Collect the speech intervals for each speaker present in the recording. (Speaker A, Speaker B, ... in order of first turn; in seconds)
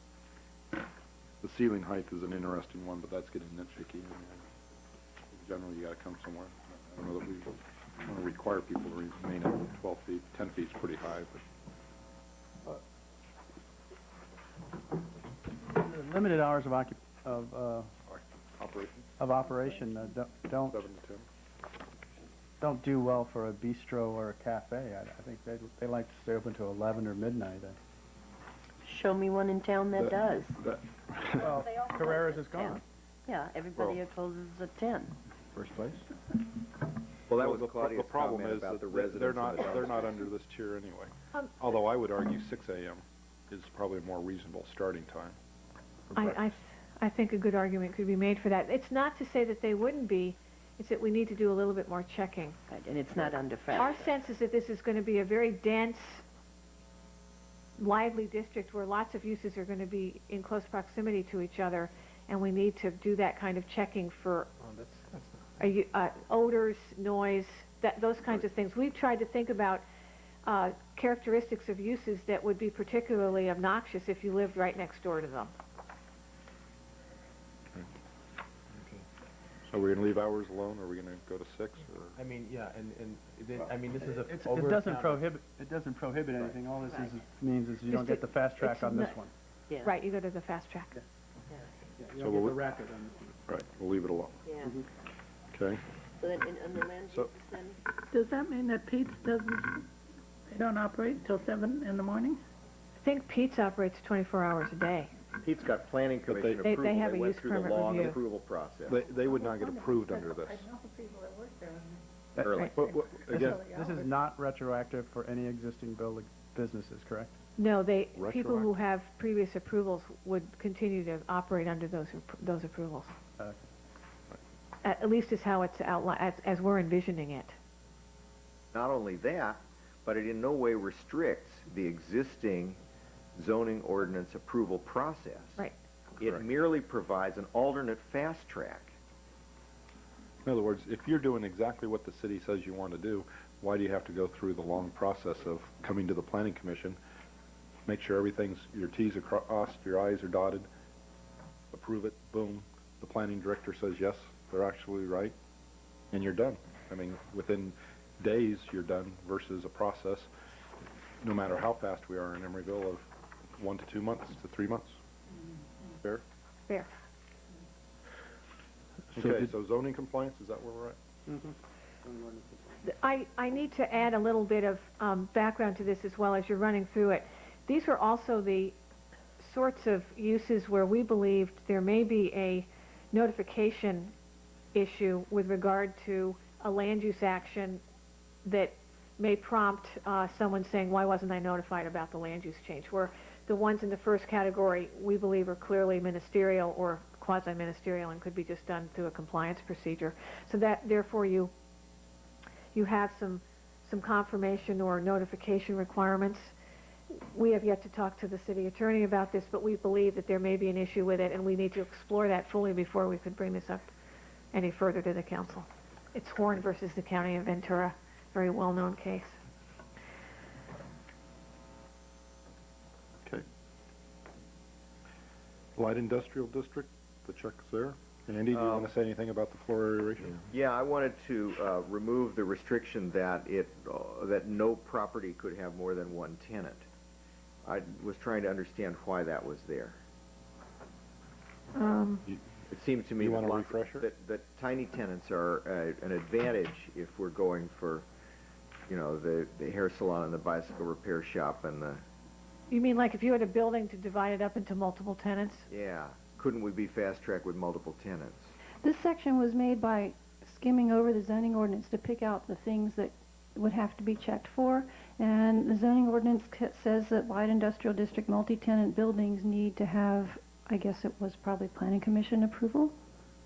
Speaker A: 1.4-4.4, 5.3-11.4, 18.1-19.1, 20.7-21.3, 29.9-31.5, 37.3-45.4, 46.1-46.5, 79.7-82.2, 92.2-92.6, 93.5-94.4, 95.5-95.8, 106.3-106.7, 108.9-110.7, 112.7-113.6, 118.2-118.7, 140.4-147.0, 147.8-150.7, 151.7-155.3, 156.1-160.3, 161.2-165.0, 169.1-171.0, 225.8-230.4, 243.2-244.1
Speaker B: 15.7-17.9, 19.2-20.8, 22.6-27.8, 31.4-32.8, 84.1-89.3, 92.0-93.2, 112.3-117.3, 169.1-169.5, 171.3-172.6
Speaker C: 28.8-30.6, 31.7-35.1, 52.7-54.1, 86.8-87.2, 88.6-89.2, 94.4-94.7, 96.2-97.8
Speaker D: 37.3-40.0, 105.4-109.0, 112.4-112.8, 128.7-132.8, 133.3-135.7, 136.2-138.9, 228.5-228.9, 230.5-236.8, 237.6-240.0, 242.7-248.0, 248.9-252.0, 255.7-258.5
Speaker E: 46.1-52.6, 53.8-56.2, 57.8-64.5, 65.6-69.8, 70.4-75.5, 87.9-88.2, 89.8-90.9, 103.0-105.1, 106.6-108.2, 117.6-123.1, 124.8-127.5, 172.8-178.7, 179.4-184.1, 184.7-187.8, 188.4-201.5, 202.7-206.5, 207.1-213.9, 214.5-219.4, 241.7-242.2, 252.7-255.7
Speaker F: 64.6-65.3, 82.2-85.3
Speaker G: 98.1-99.9, 100.5-102.4, 108.9-112.0, 112.7-114.2
Speaker H: 258.8-272.9